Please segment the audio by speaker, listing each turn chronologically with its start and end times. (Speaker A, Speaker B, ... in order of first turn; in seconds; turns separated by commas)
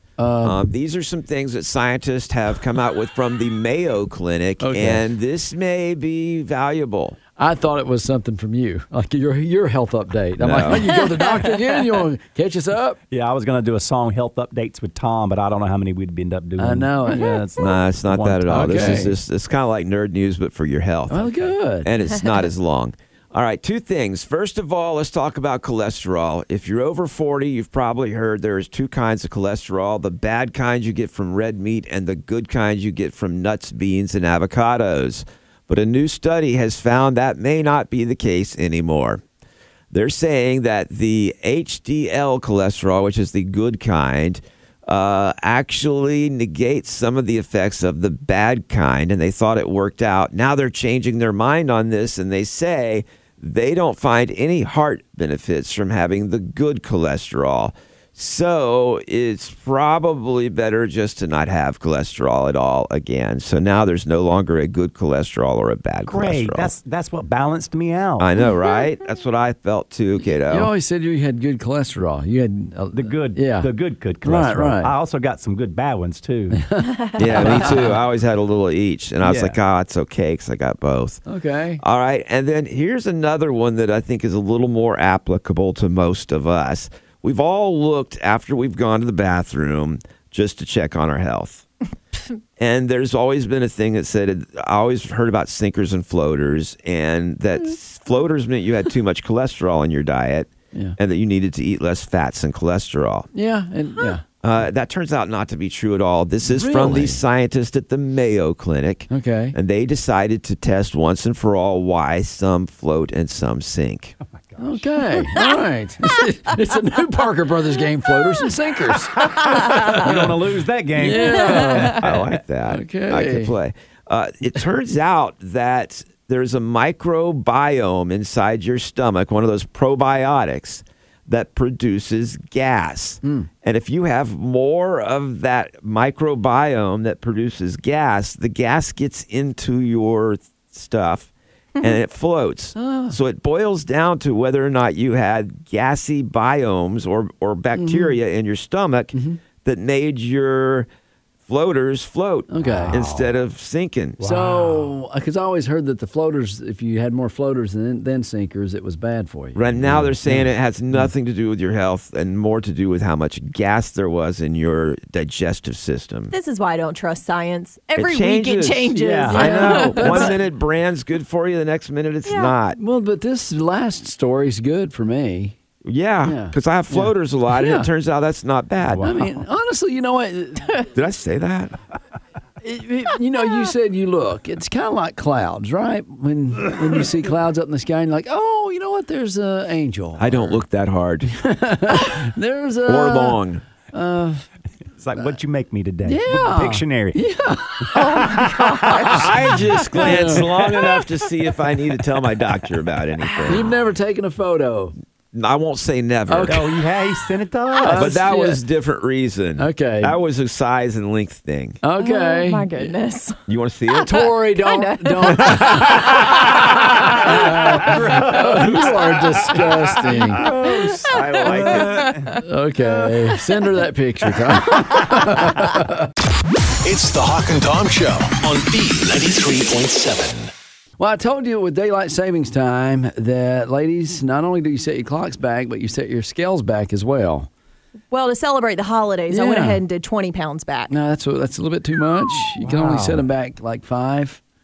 Speaker A: 0.2-0.7, Speaker B: 0.4-7.2, Speaker A: 4.6-5.0, Speaker A: 7.4-13.0, Speaker B: 10.4-10.9, Speaker C: 13.1-19.1, Speaker A: 16.6-17.4, Speaker B: 17.6-39.2, Speaker A: 18.5-19.1, Speaker A: 21.1-21.9, Speaker B: 39.9-66.7, Speaker C: 66.1-68.3, Speaker B: 68.2-70.7, Speaker A: 70.5-73.7, Speaker C: 72.9-76.6, Speaker A: 74.2-74.9, Speaker A: 76.6-77.8, Speaker B: 77.2-81.2, Speaker C: 79.2-79.5, Speaker A: 81.3-81.8, Speaker B: 81.8-91.7, Speaker B: 92.6-103.3, Speaker A: 103.3-104.2, Speaker B: 104.4-114.2, Speaker A: 106.4-107.2, Speaker A: 109.1-109.5, Speaker C: 114.5-114.8, Speaker A: 114.6-120.2, Speaker C: 119.2-122.3, Speaker A: 121.0-122.0, Speaker B: 122.0-150.9, Speaker A: 122.7-123.5, Speaker A: 133.2-133.5, Speaker A: 142.8-143.2, Speaker A: 147.7-148.2, Speaker A: 149.1-149.4, Speaker B: 151.4-154.2, Speaker A: 152.5-153.0, Speaker C: 152.6-153.3, Speaker C: 154.2-154.9, Speaker A: 154.2-159.6, Speaker B: 159.5-166.3, Speaker C: 159.8-160.5, Speaker D: 166.3-170.3, Speaker B: 167.9-172.8, Speaker C: 168.9-169.5, Speaker A: 169.3-170.4, Speaker D: 172.2-172.5, Speaker A: 172.7-175.6, Speaker B: 175.8-179.1, Speaker A: 176.2-177.9, Speaker C: 178.9-179.3, Speaker A: 179.0-180.8, Speaker B: 180.9-181.8, Speaker A: 182.6-190.6, Speaker B: 190.2-191.3, Speaker A: 191.4-193.4, Speaker B: 192.8-193.6, Speaker A: 193.9-194.4, Speaker C: 195.0-197.2, Speaker A: 196.0-199.3, Speaker D: 197.9-199.2, Speaker C: 198.1-199.2, Speaker B: 199.0-203.7, Speaker A: 199.9-200.5, Speaker A: 203.5-204.9, Speaker B: 205.3-206.7, Speaker A: 206.3-206.8, Speaker C: 206.5-208.2, Speaker A: 207.8-208.6, Speaker B: 207.8-211.8, Speaker A: 209.6-210.2, Speaker A: 211.8-212.9, Speaker D: 212.0-213.4, Speaker B: 213.5-214.3, Speaker A: 214.1-220.4, Speaker D: 214.6-215.8, Speaker C: 217.2-220.4, Speaker B: 220.3-222.2, Speaker D: 220.7-222.3, Speaker C: 221.5-222.3, Speaker A: 222.4-226.1, Speaker E: 226.8-230.5, Speaker A: 231.0-237.5, Speaker D: 238.1-240.9, Speaker A: 239.3-239.8, Speaker A: 240.9-244.4, Speaker C: 242.6-243.2